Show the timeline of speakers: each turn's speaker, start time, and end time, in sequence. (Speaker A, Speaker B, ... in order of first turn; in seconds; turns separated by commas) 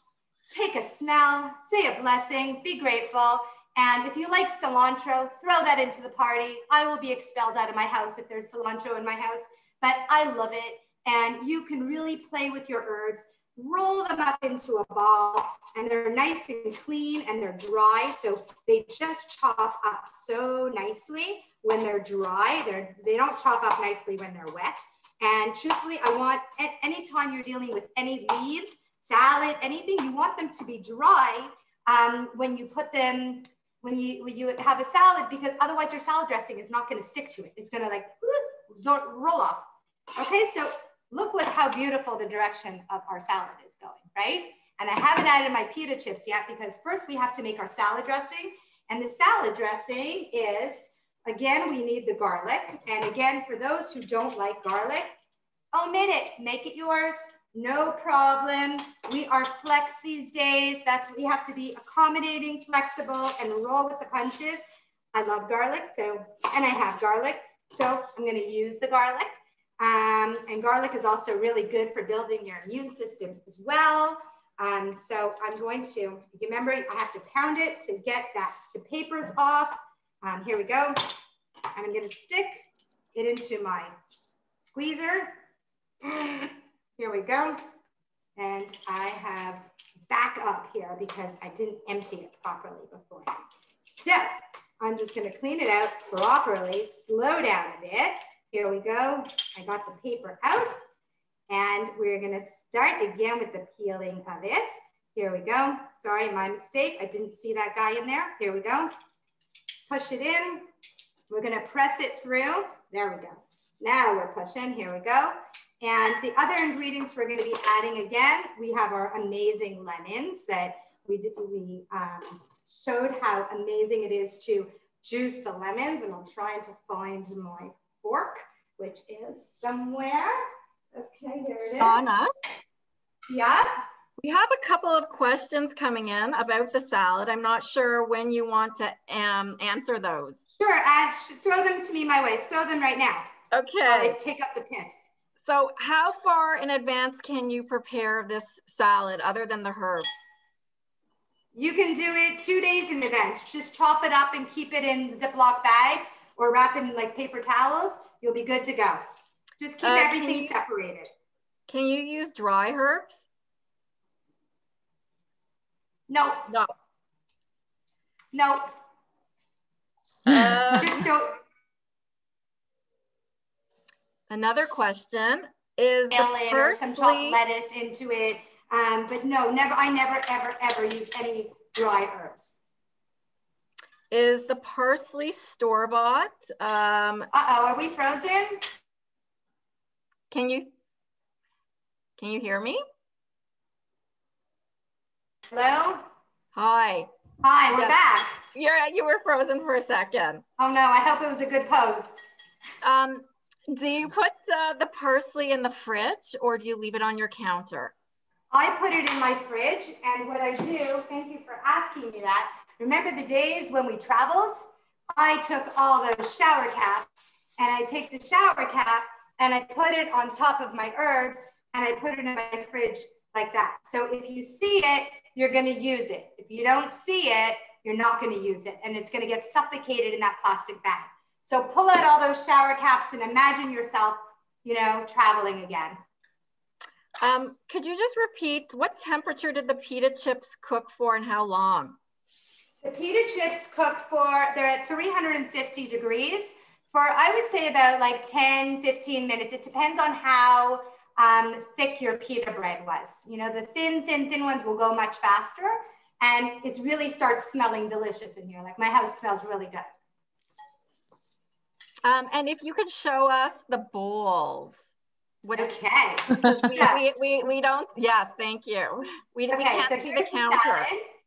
Speaker A: 0.5-55.1, Speaker A: 55.7-64.6, Speaker A: 65.1-81.2, Speaker A: 81.7-83.9, Speaker A: 84.7-85.4, Speaker A: 86.0-87.6, Speaker A: 88.3-100.8, Speaker A: 101.5-108.9, Speaker A: 109.9-110.7, Speaker A: 111.3-130.4, Speaker A: 130.9-132.1, Speaker B: 131.8-132.3, Speaker A: 133.3-133.7, Speaker B: 134.2-140.4, Speaker A: 140.6-143.2, Speaker B: 143.5-144.2, Speaker A: 143.8-145.1, Speaker B: 145.4-150.1, Speaker A: 151.5-159.0, Speaker A: 159.6-161.1, Speaker B: 159.8-160.5, Speaker B: 161.7-163.2, Speaker A: 166.1-166.5, Speaker A: 168.3-168.7, Speaker B: 170.2-171.0, Speaker A: 170.3-171.4, Speaker B: 174.3-177.4, Speaker A: 176.1-182.6, Speaker B: 184.1-187.3, Speaker A: 187.3-188.6, Speaker B: 190.3-190.7, Speaker B: 192.2-192.8, Speaker A: 195.5-196.0, Speaker B: 196.5-197.1, Speaker A: 197.4-198.4, Speaker B: 198.5-200.4, Speaker A: 200.6-202.1, Speaker B: 202.8-207.9, Speaker A: 208.5-236.0, Speaker B: 237.2-241.9, Speaker A: 242.8-259.9, Speaker B: 262.0-264.8, Speaker B: 265.4-265.7, Speaker A: 265.6-267.0, Speaker B: 266.4-270.9, Speaker A: 269.5-271.0